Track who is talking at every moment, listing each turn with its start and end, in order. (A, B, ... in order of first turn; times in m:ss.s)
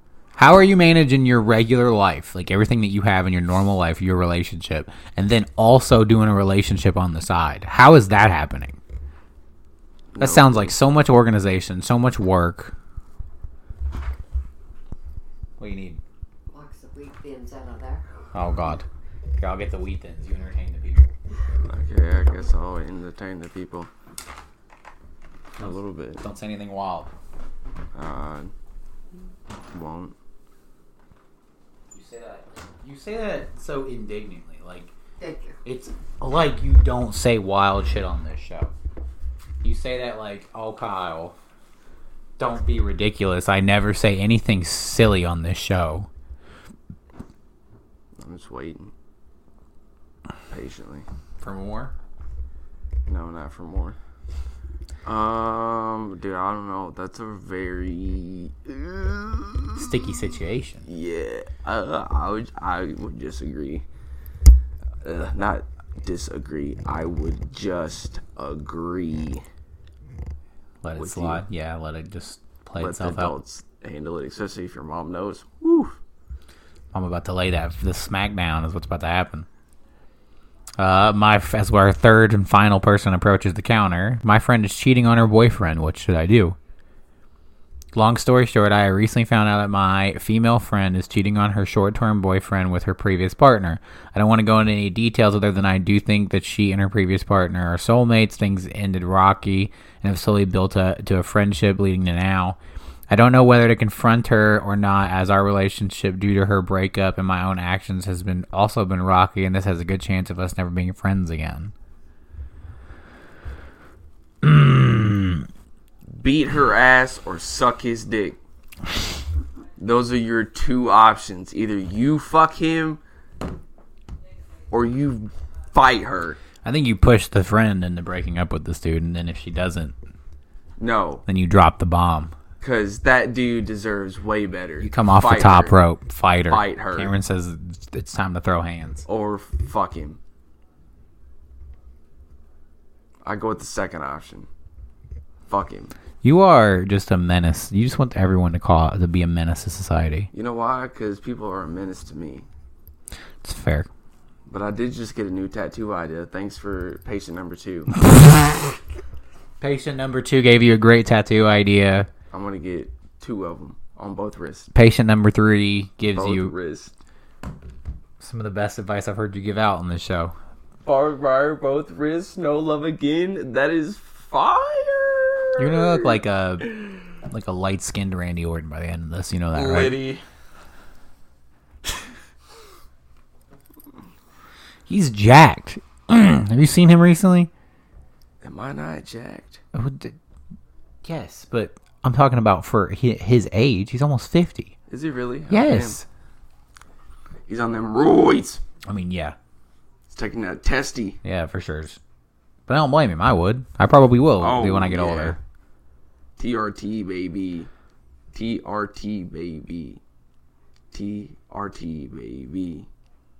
0:00.4-0:08.8 A
0:10.1-0:10.7 B
0:10.2-0:12.7 A
0:15.6-0:16.0 A
0:16.5-0:18.0 C
0:18.3-0:18.8 A
0:19.4-0:21.1 A
0:21.6-0:23.9 B
0:25.6-0:26.2 B
0:25.6-0:27.1 A
0:27.9-0:28.5 B
0:29.7-0:30.1 B
0:31.9-0:34.9 A
0:35.2-0:35.6 C
0:35.6-0:38.7 A
0:39.6-0:41.3 A
0:42.4-0:46.1 A
0:48.2-0:48.9 B
0:50.5-0:51.0 B
0:51.4-0:51.9 A
0:53.1-0:54.0 B
0:55.0-1:00.0 B
0:59.8-1:00.8 A
1:00.8-1:03.8 B
1:05.0-1:09.4 B
1:10.8-1:13.4 A
1:10.9-1:11.4 B
1:12.8-1:16.0 B
1:16.9-1:19.5 A
1:20.8-1:26.6 A
1:27.9-1:42.6 A
1:43.1-1:51.7 A
1:54.4-1:55.4 A
1:56.1-1:58.4 B
1:59.8-2:03.0 B
2:04.7-2:06.4 B
2:06.6-2:09.9 A
2:10.8-2:11.2 B
2:11.2-2:12.3 A
2:12.6-2:15.8 B
2:14.8-2:19.0 A
2:16.5-2:17.1 B
2:19.0-2:20.2 B
2:23.2-2:24.5 B
2:25.5-2:25.9 B
2:26.2-2:30.3 A
2:30.3-2:32.5 B
2:33.4-2:33.9 A
2:34.5-2:38.0 B
2:38.0-2:38.5 A
2:39.6-2:42.1 A
2:42.3-2:44.7 B
2:44.7-2:46.5 A
2:46.1-2:46.9 B
2:48.2-2:50.3 A
2:50.8-2:56.2 B
2:55.6-3:00.0 A
2:59.5-3:00.2 B
3:04.9-3:07.5 A
3:08.4-3:09.6 B
3:09.7-3:10.2 A
3:11.0-3:14.7 A
3:14.9-3:16.0 B
3:15.5-3:16.0 A
3:17.5-3:18.6 B
3:18.8-3:19.3 A
3:20.1-3:21.2 B
3:21.2-3:22.0 A
3:22.7-3:25.4 A
3:24.4-3:25.4 B
3:26.4-3:27.7 B
3:28.3-3:30.0 B
3:30.9-3:32.9 B